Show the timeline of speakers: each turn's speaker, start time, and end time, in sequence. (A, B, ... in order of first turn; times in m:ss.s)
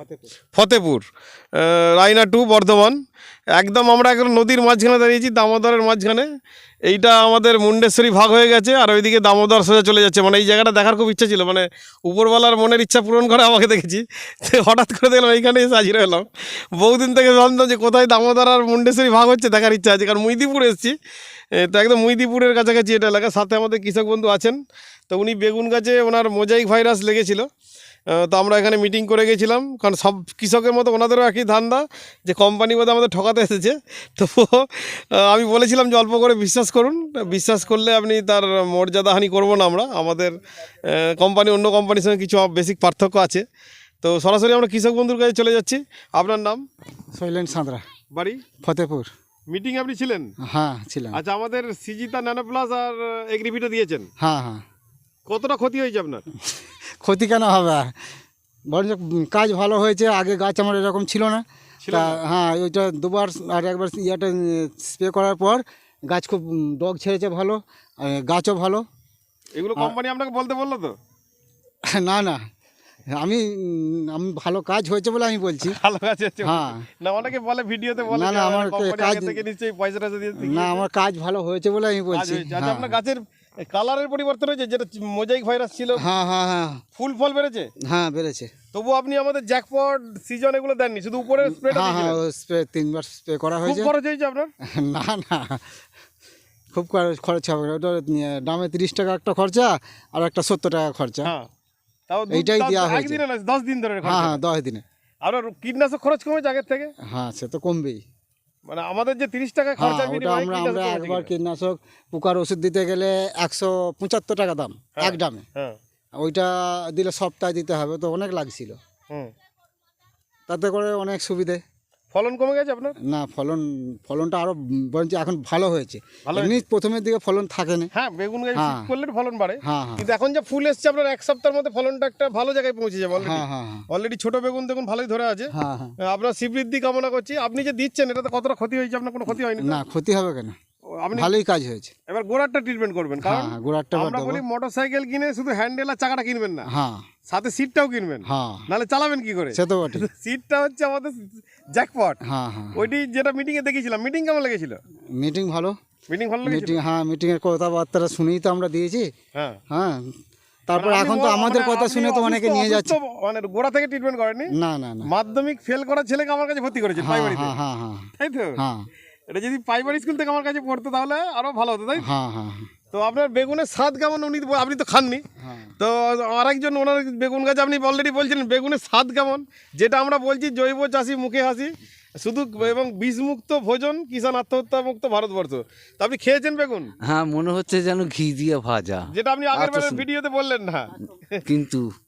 0:00.5-0:01.0 A
0:01.6-0:03.0 A
0:03.6-0:06.3 A
0:06.9-0:20.9 A
0:21.6-0:24.6 A
0:25.1-0:27.4 A
0:28.1-0:40.3 A
0:40.9-0:43.4 A
0:44.0-0:46.6 A
0:47.1-0:47.8 B
0:48.1-0:48.4 A
0:48.6-0:49.1 B
0:49.5-0:50.3 A
0:50.4-0:51.2 B
0:51.1-0:54.1 A
0:54.2-0:54.6 B
0:55.3-0:56.2 A
0:56.5-0:57.9 B
0:58.7-1:08.8 B
1:01.8-1:02.2 A
1:09.5-1:10.9 A
1:11.8-1:12.4 B
1:13.1-1:15.8 B
1:15.6-1:20.8 A
1:16.4-1:16.8 B
1:18.1-1:19.4 B
1:20.4-1:23.0 B
1:22.1-1:26.0 A
1:26.0-1:26.8 B
1:27.0-1:27.7 A
1:27.8-1:28.5 B
1:28.7-1:32.2 A
1:31.4-1:33.9 B
1:33.6-1:34.5 A
1:34.6-1:35.6 B
1:36.7-1:41.3 B
1:42.1-1:44.4 A
1:42.3-1:43.2 B
1:44.0-1:44.8 B
1:45.2-1:46.9 A
1:47.0-1:48.0 B
1:48.7-1:51.3 A
1:49.8-1:55.4 B
1:55.0-1:55.7 A
1:56.2-1:58.8 B
2:00.5-2:01.6 B
2:02.1-2:03.0 A
2:03.0-2:07.9 B
2:06.2-2:06.6 A
2:07.9-2:15.5 A
2:08.5-2:08.9 B
2:09.6-2:10.1 B
2:13.2-2:13.8 B
2:15.5-2:16.0 B
2:16.0-2:19.8 A
2:19.3-2:20.6 B
2:21.0-2:21.3 A
2:21.1-2:21.9 B
2:22.1-2:26.6 A
2:23.2-2:24.4 B
2:26.7-2:27.0 B
2:27.3-2:32.2 A
2:28.2-2:28.7 B
2:29.5-2:30.0 B
2:32.2-2:32.8 B
2:32.7-2:34.8 A
2:35.1-2:35.8 B
2:36.1-2:36.8 A
2:36.4-2:39.1 B
2:39.7-2:40.1 B
2:40.7-2:43.0 B
2:40.7-2:44.5 A
2:44.5-2:45.1 B
2:45.0-2:47.6 A
2:47.0-2:48.9 B
2:48.2-2:48.6 A
2:49.3-2:52.0 A
2:52.0-2:52.7 B
2:52.9-2:55.2 A
2:55.4-2:55.7 B
2:55.8-3:06.9 A
3:07.0-3:10.0 C
3:09.1-3:11.4 A
3:11.4-3:11.9 C